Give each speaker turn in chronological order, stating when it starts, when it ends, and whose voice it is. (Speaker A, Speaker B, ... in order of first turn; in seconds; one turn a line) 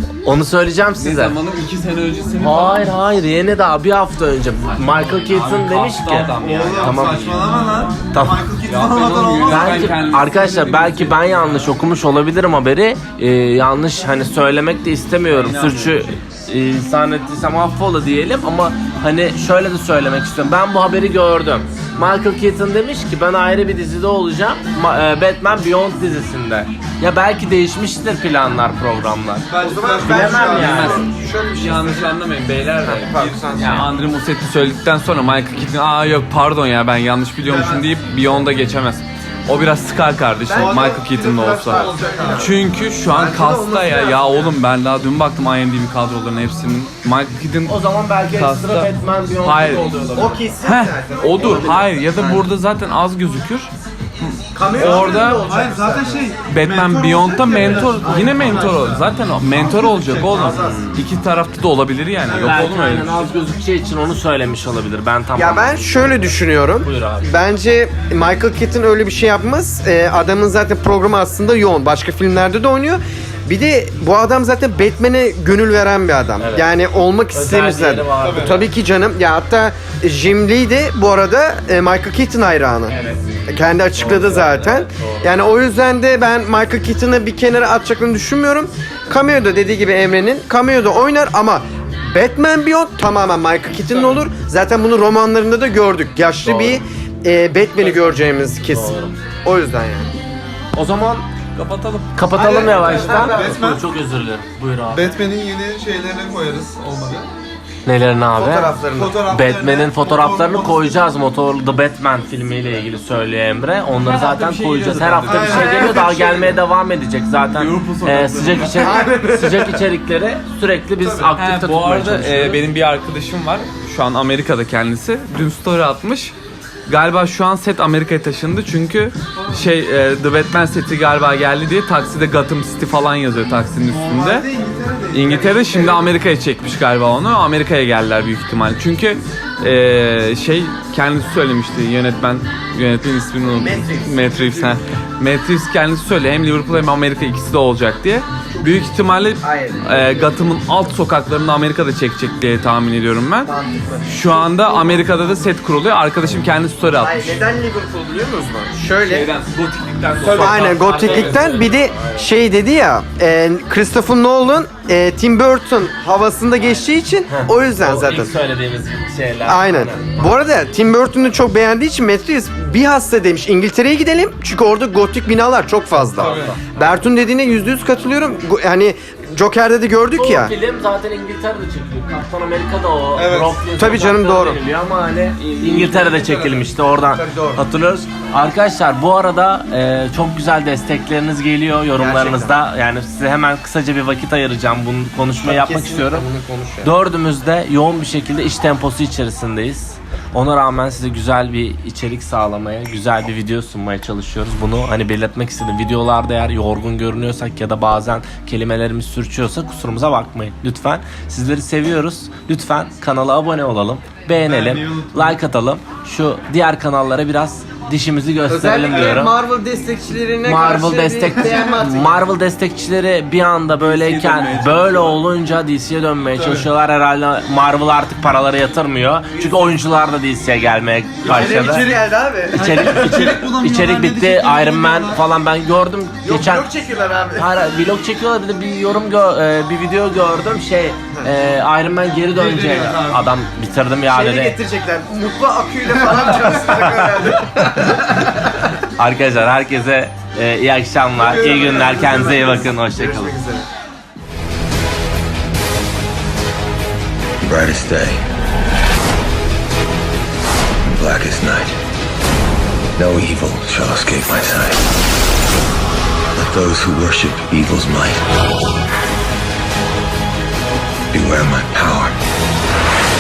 Speaker A: 0.2-1.4
Speaker B: 1.0-3.0
Speaker A: 2.4-7.4
Speaker B: 4.7-7.5
Speaker C: 6.4-10.0
Speaker A: 8.1-8.4
Speaker B: 8.7-11.7
Speaker A: 9.4-29.5
Speaker B: 15.3-16.2
Speaker C: 29.5-30.9
Speaker D: 29.6-32.2
Speaker A: 30.0-31.1
Speaker B: 30.6-49.9
Speaker D: 32.8-33.9
Speaker A: 33.6-33.9
Speaker C: 37.4-37.9
Speaker D: 40.5-44.6
Speaker C: 40.5-41.0
Speaker C: 41.6-42.6
Speaker A: 47.7-50.5
Speaker D: 50.1-52.5
Speaker B: 50.6-55.5
Speaker D: 54.5-56.3
Speaker C: 54.7-60.7
Speaker B: 56.5-63.3
Speaker D: 57.8-58.8
Speaker D: 60.3-60.8
Speaker A: 60.4-61.0
Speaker C: 62.2-62.7
Speaker A: 62.4-67.4
Speaker D: 65.3-83.0
Speaker A: 76.4-76.7
Speaker A: 77.3-78.7
Speaker C: 78.2-78.6
Speaker A: 82.9-83.2
Speaker D: 83.5-100.1
Speaker A: 83.9-85.3
Speaker A: 96.4-96.8
Speaker A: 97.8-98.1
Speaker A: 98.6-99.2
Speaker A: 100.7-101.3
Speaker B: 101.6-102.1
Speaker A: 102.2-105.2
Speaker D: 102.3-103.6
Speaker C: 102.3-103.9
Speaker C: 104.9-107.3
Speaker A: 107.8-108.7
Speaker D: 108.3-109.2
Speaker C: 108.9-111.0
Speaker A: 109.3-122.7
Speaker B: 114.0-115.7
Speaker C: 115.3-116.5
Speaker D: 115.6-116.3
Speaker B: 117.5-119.0
Speaker D: 118.6-119.8
Speaker C: 121.0-121.3
Speaker B: 121.3-126.3
Speaker B: 126.9-134.5
Speaker C: 129.4-129.7
Speaker C: 133.9-136.1
Speaker B: 135.1-153.5
Speaker D: 143.5-144.8
Speaker D: 148.5-150.5
Speaker D: 153.4-155.1
Speaker B: 154.1-157.4
Speaker D: 157.0-159.3
Speaker B: 159.0-161.5
Speaker C: 160.2-160.5
Speaker A: 160.3-162.3
Speaker D: 160.3-168.3
Speaker A: 167.3-170.2
Speaker D: 169.4-180.5
Speaker C: 176.2-176.6
Speaker B: 176.3-176.5
Speaker A: 180.2-196.3
Speaker C: 183.2-183.6
Speaker D: 183.8-184.6
Speaker B: 185.4-186.3
Speaker D: 187.1-187.6
Speaker D: 192.0-192.6
Speaker D: 195.4-196.9
Speaker A: 196.8-219.4
Speaker C: 214.4-215.4
Speaker D: 218.5-222.2
Speaker C: 218.9-219.3
Speaker A: 220.4-231.9
Speaker C: 221.3-221.8
Speaker B: 223.8-225.2
Speaker C: 226.4-226.7
Speaker C: 229.5-229.7
Speaker C: 231.2-232.0
Speaker D: 231.2-233.4
Speaker C: 232.5-235.2
Speaker A: 232.5-236.7
Speaker D: 236.2-237.5
Speaker A: 237.4-244.6
Speaker C: 242.3-243.3
Speaker D: 244.1-247.9
Speaker A: 249.0-253.4
Speaker C: 251.2-252.3
Speaker D: 251.2-253.7
Speaker E: 257.4-258.2
Speaker E: 260.9-261.8
Speaker E: 263.0-264.8
Speaker E: 266.4-268.2
Speaker E: 271.1-272.2